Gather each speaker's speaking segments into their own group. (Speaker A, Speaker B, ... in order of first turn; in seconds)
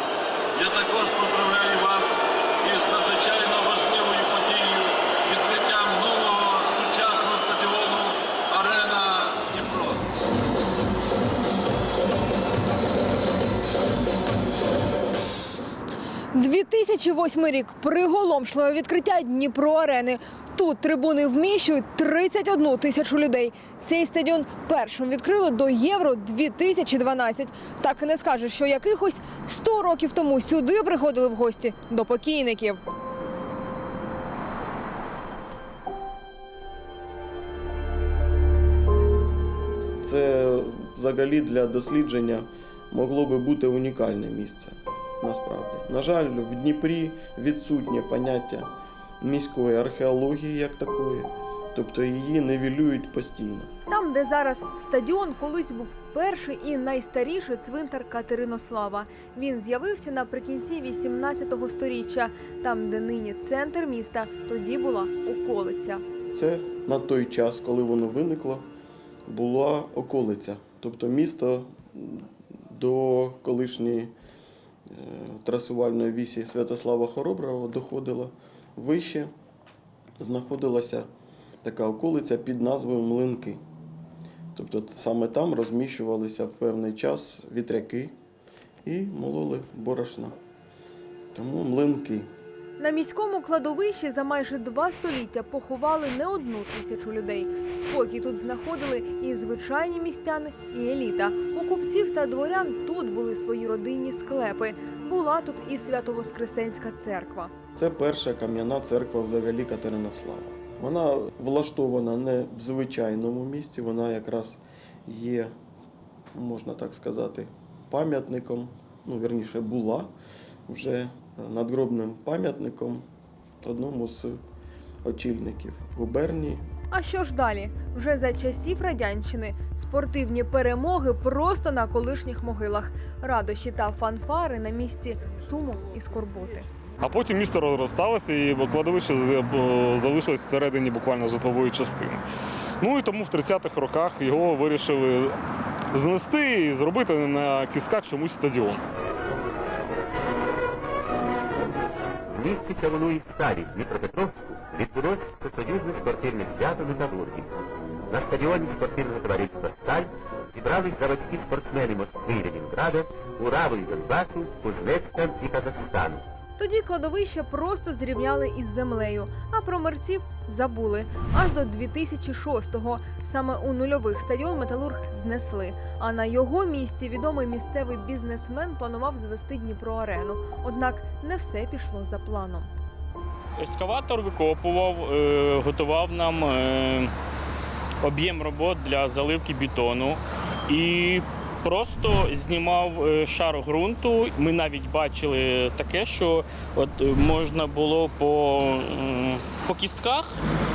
Speaker A: 0.6-10.0
Speaker B: 16.3-32.8, 53.9-66.0, 92.8-107.5, 126.9-136.7, 166.6-182.7
Speaker C: 40.0-53.7, 66.3-68.7, 69.3-74.1, 74.9-79.3, 80.2-81.1, 81.6-83.6, 84.5-88.1, 88.8-90.4, 91.3-92.3, 107.8-115.5, 116.3-120.1, 120.7-123.0, 123.6-124.4, 125.0-126.7
Speaker D: 137.0-142.2, 142.8-145.3, 145.9-148.8
Speaker E: 152.3-157.6, 158.1-166.2
Speaker F: 183.6-187.1, 188.0-200.3